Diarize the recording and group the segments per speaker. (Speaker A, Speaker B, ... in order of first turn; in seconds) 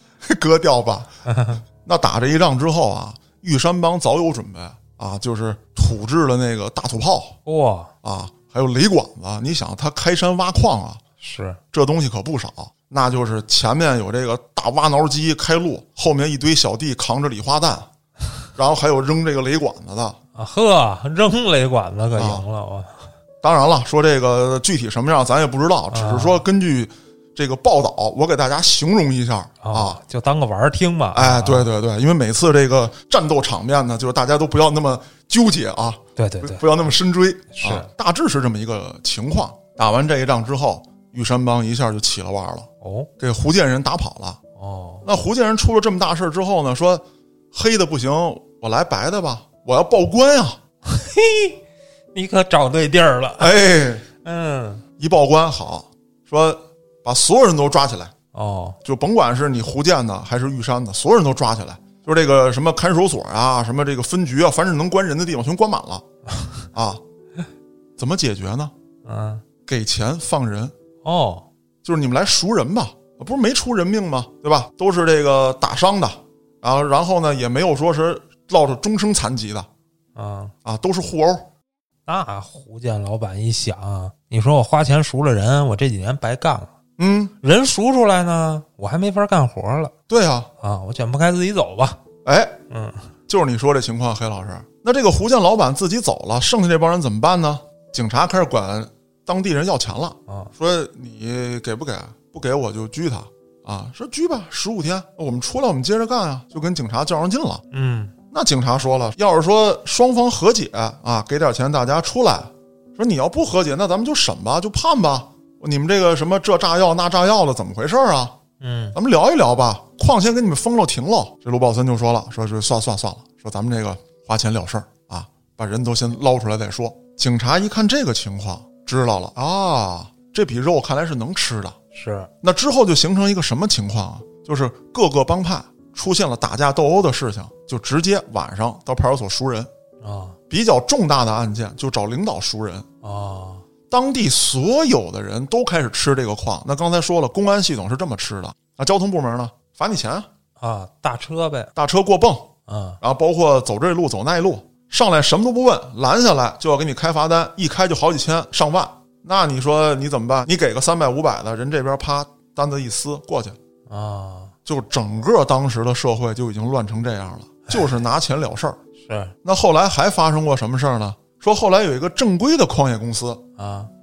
Speaker A: 0.2-1.1, 1.9-7.4, 8.0-11.0, 11.7-17.9, 18.6-20.2, 22.1-22.4, 23.4-30.0, 31.1-42.7, 43.2-44.4, 45.0-50.6, 53.4-54.0, 55.0-58.1, 58.9-66.0, 66.7-67.0, 68.0-68.7, 69.7-70.7, 71.8-79.7, 80.7-81.5, 87.0-87.3, 90.1-90.5, 92.2-92.6, 93.3-107.6, 108.3-118.4, 119.0-131.8, 132.4-139.7, 140.5-142.9, 143.9-150.3, 151.8-152.5, 153.0-163.6, 164.7-168.8, 169.4-173.4
Speaker B: 1.3-1.6, 7.5-7.9, 11.2-11.6, 20.4-23.1, 25.9-26.4, 29.6-31.7, 36.2-36.7, 37.5-37.9, 42.8-43.1, 44.6-45.1, 50.9-51.6, 52.1-53.6, 54.2-54.8, 58.3-58.8, 69.0-69.4, 71.0-71.5, 80.2-80.5, 82.1-86.7, 87.4-89.9, 90.6-92.0, 92.7-93.1, 100.3-100.5, 107.7-108.1, 118.6-119.0, 131.9-132.3, 140.0-140.4, 143.0-143.7, 150.6-151.7, 152.7-153.0, 163.9-164.5, 169.0-169.3, 173.6-173.9